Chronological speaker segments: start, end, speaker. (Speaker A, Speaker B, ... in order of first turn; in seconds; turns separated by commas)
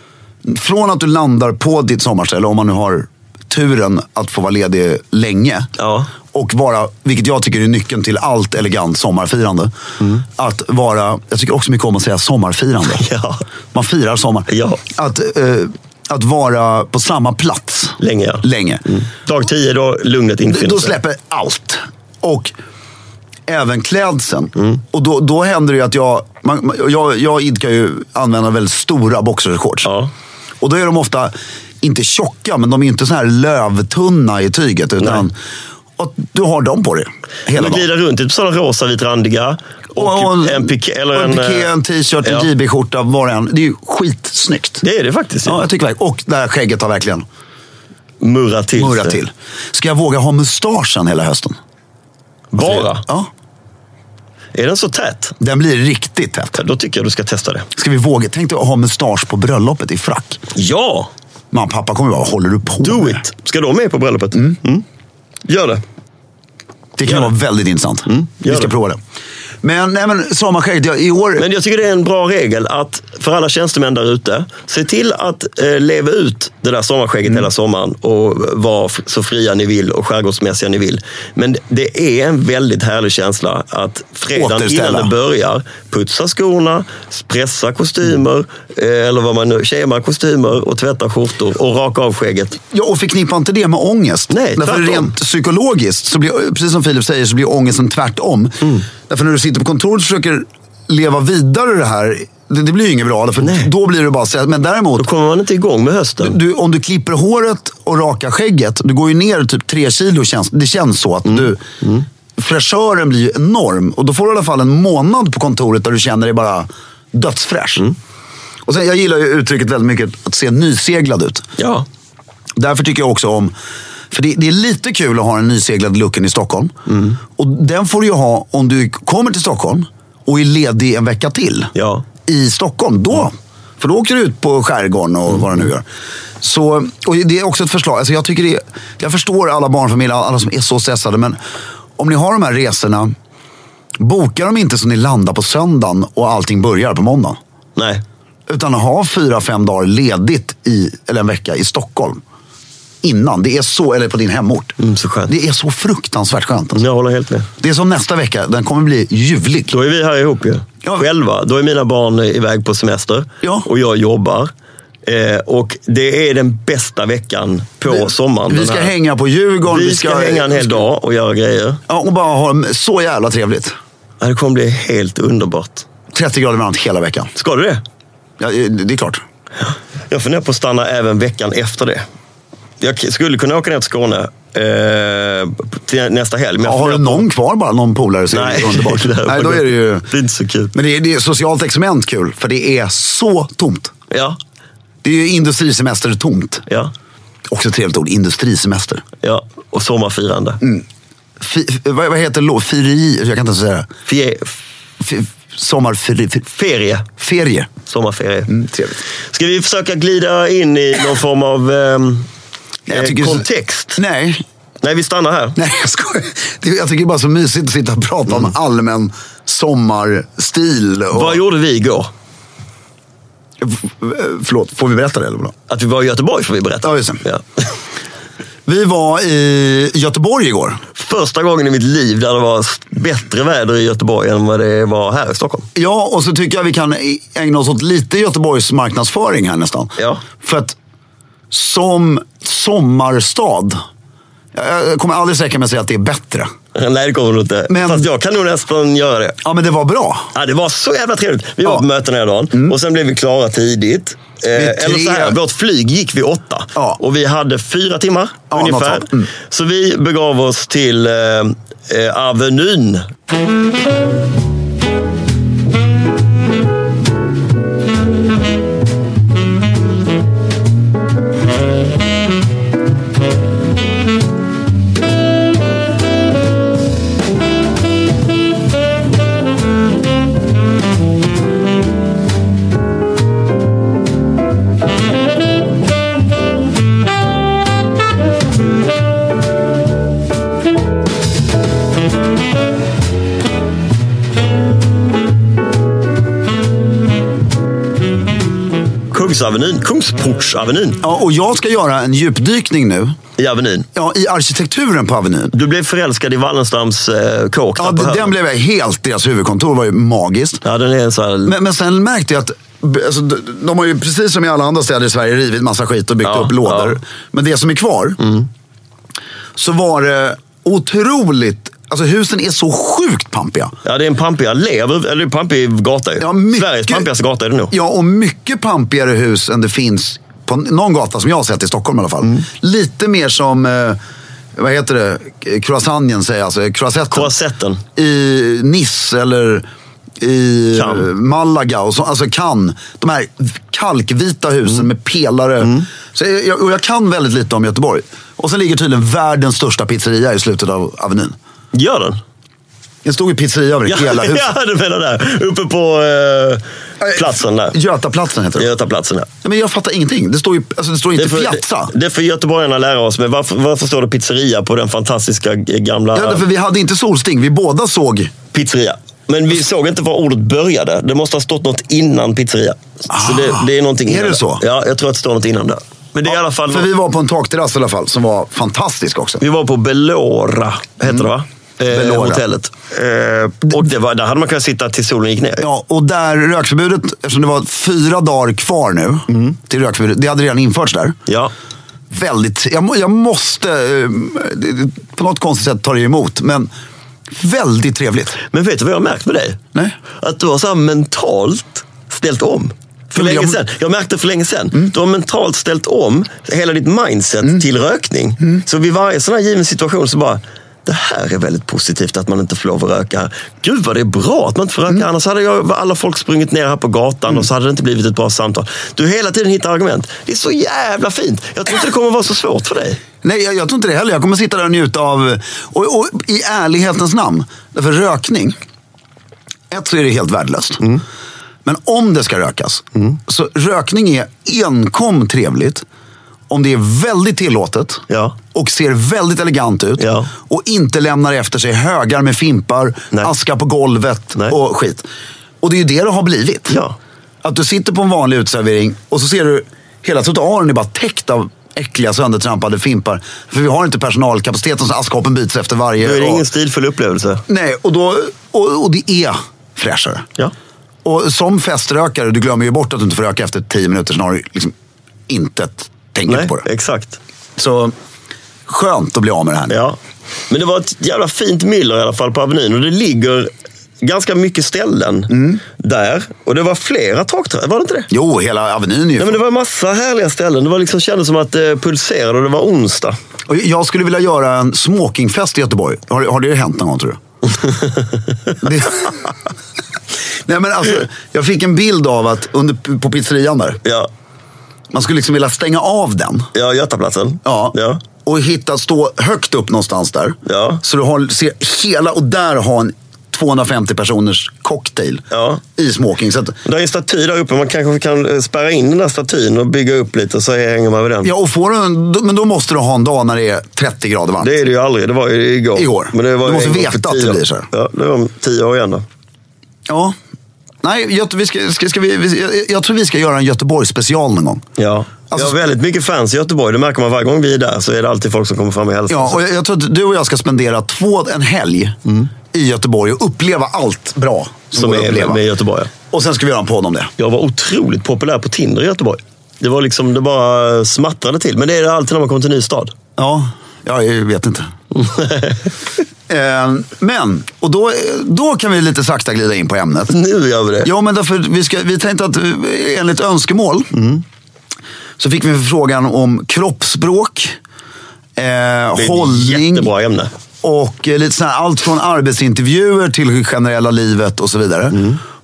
Speaker A: 0.4-5.7, Speaker B: 5.8-6.1, Speaker A: 6.3-9.7, Speaker A: 10.3-13.1, Speaker B: 12.9-13.4, Speaker A: 13.7-18.8, Speaker B: 14.5-14.8, Speaker B: 18.0-21.0, Speaker A: 20.5-22.5, Speaker A: 23.5-29.9, Speaker B: 29.9-30.1, Speaker A: 30.6-35.3, Speaker B: 35.0-35.3, Speaker A: 36.0-37.9, Speaker B: 37.5-41.7, Speaker A: 40.0-44.8, Speaker B: 44.8-45.7, Speaker A: 45.5-47.2, Speaker B: 48.2-49.2, Speaker A: 48.8-51.6, Speaker B: 52.5-53.0, Speaker A: 52.6-53.3, Speaker B: 54.5-55.4, Speaker A: 55.4-56.6, Speaker B: 56.5-57.7, Speaker A: 57.8-60.4, Speaker B: 60.5-61.1, Speaker A: 61.5-63.2, Speaker B: 62.8-64.8, Speaker B: 65.5-65.8, Speaker A: 67.0-69.0, Speaker B: 68.1-68.7, Speaker A: 69.6-71.4, Speaker B: 71.4-92.6, Speaker A: 84.3-85.1, Speaker A: 92.7-105.1, Speaker B: 94.3-95.1, Speaker B: 103.4-103.7, Speaker B: 105.0-106.4, Speaker A: 106.2-111.6, Speaker B: 111.3-112.0, Speaker A: 112.4-117.9, Speaker A: 118.7-121.5, Speaker B: 121.6-121.9, Speaker A: 122.6-123.5, Speaker A: 124.1-131.7, Speaker B: 126.9-127.2, Speaker B: 131.8-132.1, Speaker A: 132.2-135.8, Speaker A: 136.4-141.4, Speaker A: 142.0-143.1, Speaker A: 144.0-147.4, Speaker B: 147.8-148.0, Speaker A: 148.5-152.2, Speaker A: 153.0-154.8, Speaker B: 154.8-155.3, Speaker A: 155.3-156.8, Speaker B: 156.8-157.5, Speaker A: 157.6-159.7, Speaker B: 159.7-164.5, Speaker A: 163.4-163.7, Speaker B: 165.1-168.9, Speaker A: 167.9-170.8, Speaker B: 169.7-171.8, Speaker A: 171.9-173.8, Speaker B: 174.2-175.9, Speaker A: 176.1-177.3, Speaker B: 177.4-177.8, Speaker A: 178.4-179.2, Speaker B: 179.6-182.1, Speaker B: 182.8-187.2, Speaker A: 186.6-190.1, Speaker B: 188.3-190.7, Speaker A: 190.7-193.9, Speaker B: 194.1-194.4, Speaker A: 195.0-196.6, Speaker A: 197.5-199.0, Speaker B: 199.2-200.6, Speaker A: 201.4-203.9, Speaker B: 204.1-204.6, Speaker A: 205.0-206.5, Speaker B: 206.5-207.1, Speaker A: 207.2-207.7, Speaker B: 207.8-208.6, Speaker A: 208.5-209.0, Speaker B: 209.3-212.3, Speaker A: 212.9-214.4, Speaker B: 212.9-214.0, Speaker B: 214.8-215.6, Speaker A: 215.6-221.4, Speaker B: 221.1-222.1, Speaker A: 223.6-225.6, Speaker B: 225.7-227.7, Speaker A: 226.8-227.2, Speaker A: 228.7-230.8, Speaker B: 230.9-235.7, Speaker A: 235.8-240.8, Speaker B: 240.0-240.2, Speaker A: 241.5-243.8, Speaker A: 244.5-246.5, Speaker B: 246.8-249.4, Speaker A: 247.7-248.1, Speaker A: 249.4-250.3, Speaker B: 250.3-263.1, Speaker A: 254.6-255.4, Speaker A: 258.5-259.3, Speaker B: 299.1-301.0, Speaker A: 301.0-303.2, Speaker B: 303.4-303.9, Speaker A: 303.9-305.5, Speaker B: 305.5-308.3, Speaker A: 307.8-310.6, Speaker B: 310.6-311.6, Speaker A: 311.5-318.2, Speaker B: 316.2-317.0, Speaker A: 319.6-323.7, Speaker B: 323.9-327.7, Speaker A: 326.2-327.1, Speaker A: 327.7-334.0, Speaker A: 334.6-337.3, Speaker B: 337.1-337.8, Speaker A: 338.0-339.7, Speaker A: 340.2-351.4, Speaker B: 340.8-341.1, Speaker B: 351.7-352.2, Speaker A: 353.1-354.5, Speaker B: 353.9-357.8, Speaker A: 357.0-358.7, Speaker B: 358.6-359.3, Speaker A: 359.4-361.9, Speaker B: 361.2-366.4, Speaker A: 366.1-368.3, Speaker B: 368.5-376.9, Speaker A: 373.1-374.6, Speaker A: 376.3-379.4, Speaker B: 379.4-385.6, Speaker A: 381.9-382.4, Speaker A: 385.6-391.2, Speaker B: 389.3-389.6, Speaker B: 391.3-391.5, Speaker A: 392.1-396.7, Speaker A: 397.3-398.4, Speaker B: 398.5-399.6, Speaker B: 400.2-423.0, Speaker A: 403.1-403.6, Speaker A: 423.2-428.6, Speaker A: 429.7-430.9, Speaker A: 431.6-435.8, Speaker A: 436.5-445.1, Speaker B: 438.1-438.4, Speaker B: 440.0-440.3, Speaker A: 445.6-446.8, Speaker B: 446.7-446.9, Speaker A: 447.4-456.4, Speaker B: 456.0-457.4, Speaker A: 457.5-460.3, Speaker A: 461.1-464.7, Speaker A: 465.3-466.6, Speaker B: 466.3-467.2, Speaker A: 467.6-467.9, Speaker A: 468.7-469.8, Speaker B: 469.7-470.0, Speaker B: 470.5-473.5, Speaker B: 474.0-478.1, Speaker A: 475.3-475.6, Speaker A: 478.1-479.4, Speaker B: 479.2-483.2, Speaker A: 483.5-487.2, Speaker B: 487.6-488.6, Speaker A: 488.6-489.2, Speaker A: 490.5-493.8, Speaker A: 494.9-496.5, Speaker B: 496.5-498.0, Speaker A: 497.4-506.6, Speaker B: 500.5-500.8, Speaker B: 505.3-505.6, Speaker B: 506.6-511.3, Speaker A: 511.2-514.5, Speaker B: 514.4-519.0, Speaker A: 515.8-517.7, Speaker A: 519.9-520.1, Speaker A: 520.8-524.6, Speaker B: 524.8-529.4, Speaker A: 525.3-525.6, Speaker A: 529.1-532.0, Speaker A: 532.5-535.4, Speaker B: 534.8-535.9, Speaker A: 536.1-537.1, Speaker B: 537.2-542.9, Speaker A: 543.2-544.7, Speaker B: 545.0-545.6, Speaker A: 546.3-550.1, Speaker B: 550.1-550.9, Speaker A: 550.8-554.0, Speaker B: 553.9-554.2, Speaker A: 555.2-557.6, Speaker A: 558.4-559.9, Speaker B: 559.0-560.3, Speaker A: 560.6-565.0